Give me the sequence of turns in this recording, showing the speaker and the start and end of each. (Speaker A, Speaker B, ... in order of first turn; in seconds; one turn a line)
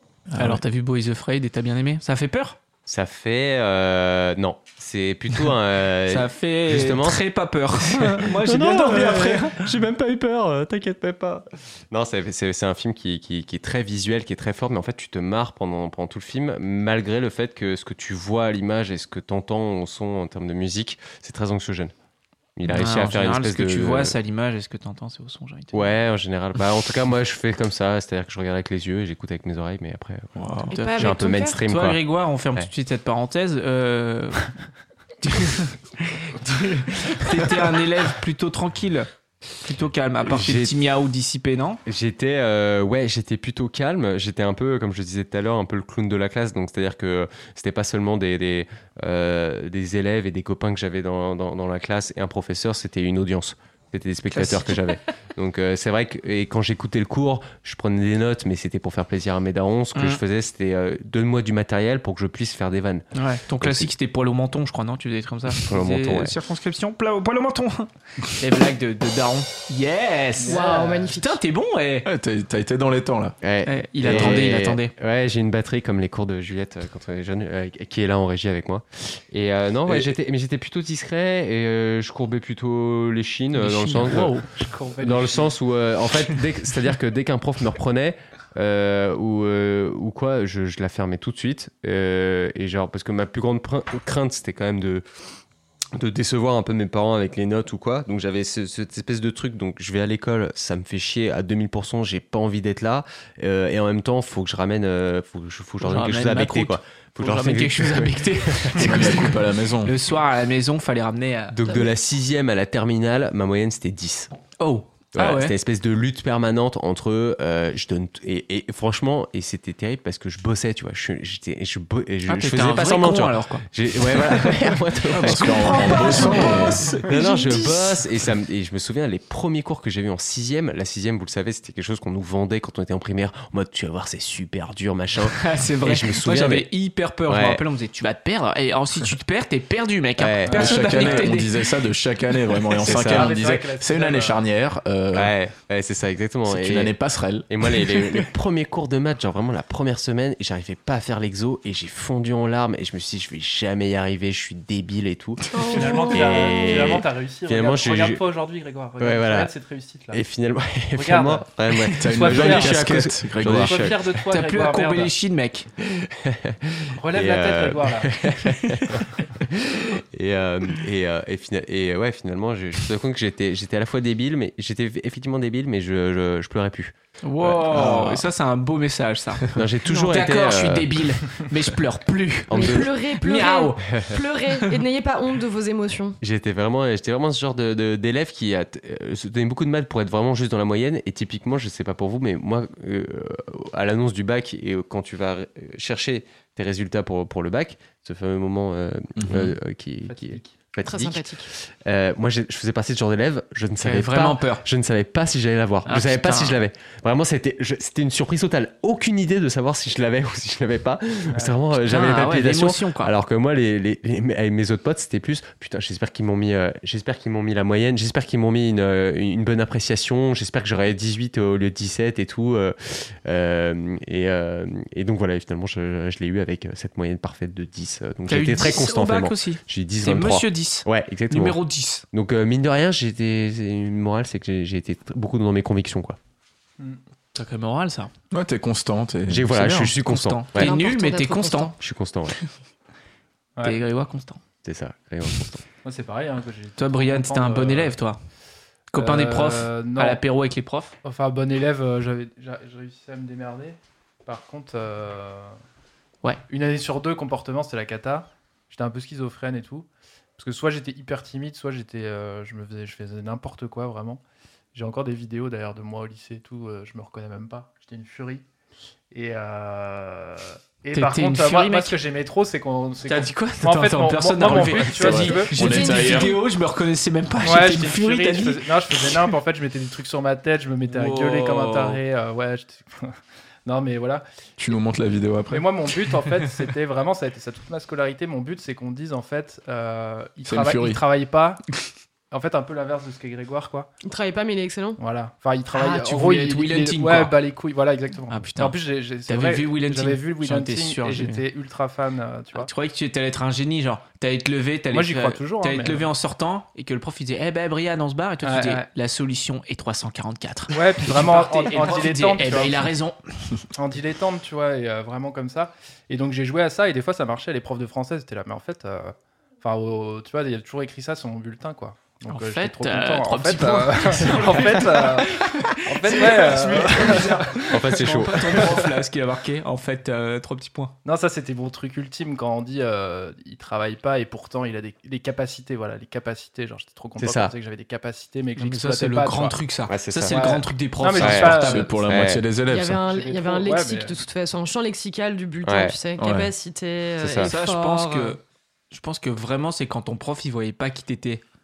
Speaker A: 0.3-0.6
Speaker B: 0.4-2.6
Speaker C: 2.9-7.2
Speaker B: 6.1-9.7
Speaker C: 7.8-21.9
Speaker C: 22.6-24.2
Speaker B: 22.7-25.9
Speaker C: 25.7-30.4
Speaker A: 30.4-30.7
Speaker B: 30.4-34.5
Speaker D: 30.7-31.6
Speaker C: 30.9-32.0
Speaker B: 35.2-35.8
Speaker B: 36.4-39.1
Speaker B: 39.6-41.8
Speaker C: 40.3-40.8
Speaker C: 41.9-63.9
Speaker B: 54.3-54.8
Speaker B: 60.0-60.2
Speaker B: 63.1-72.1
Speaker C: 65.5-66.3
Speaker E: 70.4-71.2
Speaker D: 70.5-71.4
Speaker A: 72.0-73.4
Speaker C: 73.4-84.5
Speaker B: 73.6-74.9
Speaker B: 83.5-84.5
Speaker E: 84.5-85.5
Speaker C: 85.0-95.0
Speaker C: 96.0-109.3
Speaker B: 105.8-111.8
Speaker A: 108.8-109.9
Speaker C: 111.5-114.3
Speaker B: 114.6-115.6
Speaker C: 115.2-136.7
Speaker B: 122.3-124.6
Speaker A: 125.1-126.9
Speaker D: 125.5-128.0
Speaker B: 125.7-127.6
Speaker B: 135.2-141.6
Speaker C: 137.3-137.6
Speaker C: 140.2-141.2
Speaker E: 140.5-141.3
Speaker A: 140.5-145.3
Speaker C: 142.8-143.5
Speaker E: 142.9-144.4
Speaker C: 145.1-146.9
Speaker A: 146.5-147.5
Speaker C: 147.5-158.2
Speaker D: 155.5-157.0
Speaker E: 155.6-160.2
Speaker C: 159.0-159.5
Speaker C: 160.1-164.2
Speaker E: 161.0-161.5
Speaker A: 162.0-163.8
Speaker E: 162.0-165.1
Speaker B: 164.3-165.7
Speaker C: 166.0-178.2
Speaker E: 167.0-168.2
Speaker B: 177.2-183.8
Speaker C: 179.5-180.9
Speaker C: 182.5-182.9
Speaker D: 182.5-186.2
Speaker C: 183.8-184.2
Speaker C: 186.2-231.6
Speaker A: 199.2-199.6
Speaker E: 200.1-200.5
Speaker D: 200.8-201.5
Speaker B: 203.8-204.7
Speaker B: 205.9-206.6
Speaker E: 211.3-211.6
Speaker B: 211.8-213.2
Speaker B: 228.3-232.1
Speaker C: 232.1-236.2
Speaker B: 237.3-238.1
Speaker A: 238.3-239.7
Speaker C: 239.3-240.7
Speaker B: 239.5-241.7
Speaker D: 240.6-241.8
Speaker C: 241.8-242.3
Speaker B: 243.6-244.4
Speaker C: 244.7-245.6
Speaker E: 245.8-248.0
Speaker B: 246.8-248.2
Speaker B: 248.9-251.0
Speaker E: 248.9-250.2
Speaker E: 251.0-255.6
Speaker E: 256.5-264.2
Speaker E: 264.7-268.4
Speaker E: 269.1-275.5
Speaker B: 270.9-272.0
Speaker B: 273.1-279.3
Speaker A: 274.5-276.4
Speaker D: 275.5-276.4
Speaker E: 277.4-284.2
Speaker B: 280.9-282.0
Speaker A: 284.6-285.7
Speaker E: 285.5-291.6
Speaker A: 290.4-291.0
Speaker E: 292.3-293.9
Speaker D: 294.0-295.0
Speaker E: 295.0-302.7
Speaker B: 295.7-297.4
Speaker B: 298.3-301.4
Speaker B: 302.6-313.6
Speaker E: 304.9-306.1
Speaker E: 308.4-308.8
Speaker E: 310.7-312.9
Speaker E: 313.8-328.9
Speaker B: 322.3-330.9
Speaker C: 327.0-328.7
Speaker E: 331.1-339.6
Speaker C: 337.2-337.6
Speaker B: 338.6-341.9
Speaker C: 339.9-340.4
Speaker E: 340.3-342.1
Speaker C: 341.2-342.4
Speaker A: 341.3-343.0
Speaker D: 342.7-348.4
Speaker E: 343.1-344.2
Speaker C: 345.6-346.0
Speaker A: 346.2-346.5
Speaker C: 347.2-347.5
Speaker B: 347.4-351.4